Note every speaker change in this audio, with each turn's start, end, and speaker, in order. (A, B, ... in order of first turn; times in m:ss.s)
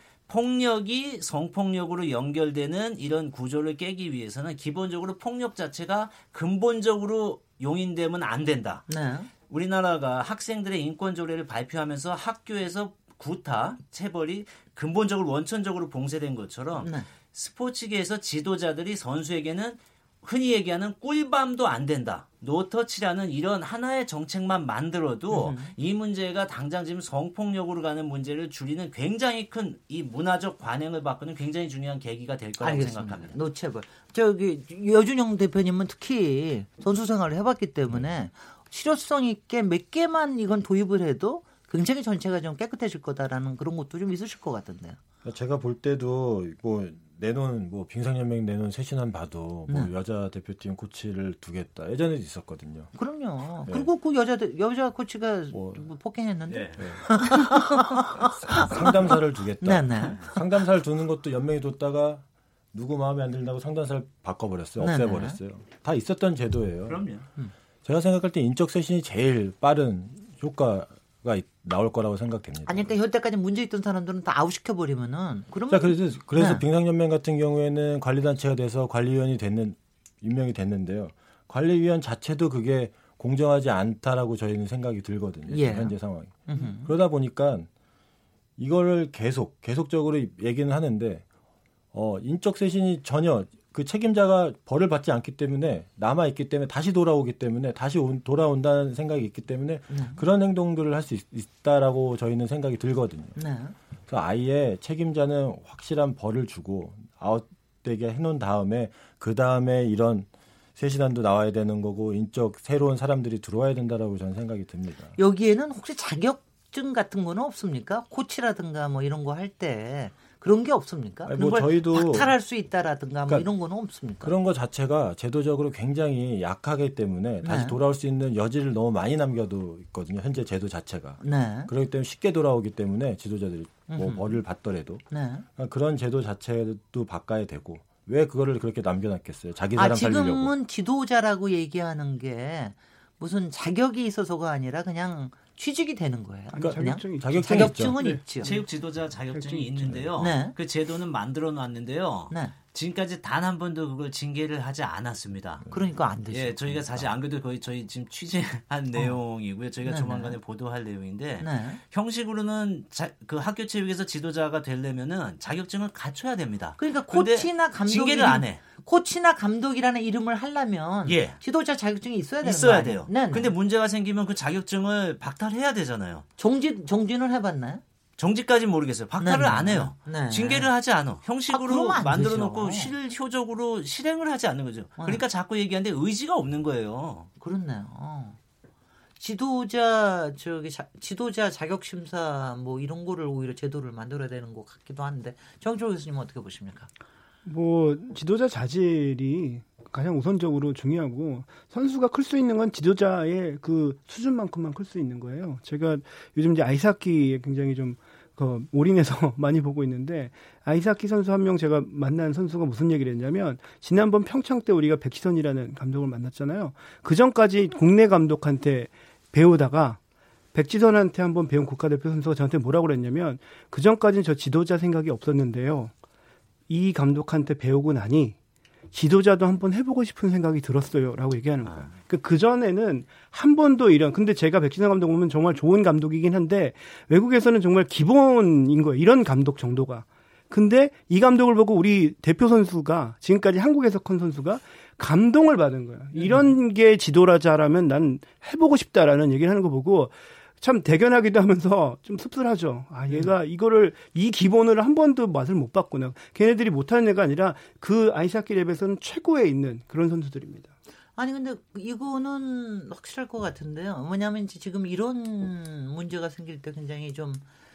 0:00.3-0:08.9 A
0:08.9-0:09.3 B
0:09.5-0:33.3 A
0:16.8-0:17.1 B
0:25.3-0:25.7 B
0:32.6-0:45.0 B
0:45.2-0:52.9 C
0:52.9-1:00.3 B
0:55.5-0:55.8 C
0:56.5-0:56.8 A
0:56.8-0:57.0 C
0:58.3-1:07.0 C
1:04.8-1:05.4 B
1:06.9-1:07.2 A
1:07.8-1:12.9 C
1:12.6-1:16.6 B
1:15.7-1:27.7 C
1:25.5-1:25.9 B
1:26.5-1:26.9 B
1:28.6-1:31.2 C
1:31.9-1:43.4 C
1:39.9-1:40.2 B
1:43.4-1:43.8 B
1:44.1-1:55.2 C
1:55.2-2:04.3 B
2:01.2-2:02.3 C
2:04.2-2:15.0 C
2:07.4-2:07.8 B
2:11.2-2:11.7 B
2:13.9-2:14.4 B
2:15.1-2:15.4 B
2:15.6-2:20.5 C
2:19.8-2:28.5 B
2:26.5-2:28.5 D
2:26.6-2:28.0 C
2:28.4-2:35.7 A
2:29.4-2:29.8 D
2:29.8-2:30.1 C
2:30.2-2:30.6 B
2:35.7-2:37.1 B
2:36.3-2:48.6 A
2:39.8-2:40.4 B
2:41.4-2:41.8 B
2:46.8-2:53.5 B
2:51.0-2:51.4 A
2:52.4-2:56.2 A
2:56.4-2:57.8 B
2:58.2-3:07.3 A
2:59.2-3:00.7 B
3:01.5-3:02.9 B
3:07.4-3:08.4 B
3:09.2-3:16.9 B
3:17.4-3:40.0 D
3:40.5-3:45.9 D
3:46.7-3:48.4 D
3:48.9-4:20.7 D
3:51.6-3:51.9 A
4:06.1-4:06.5 B
4:21.2-4:27.4 B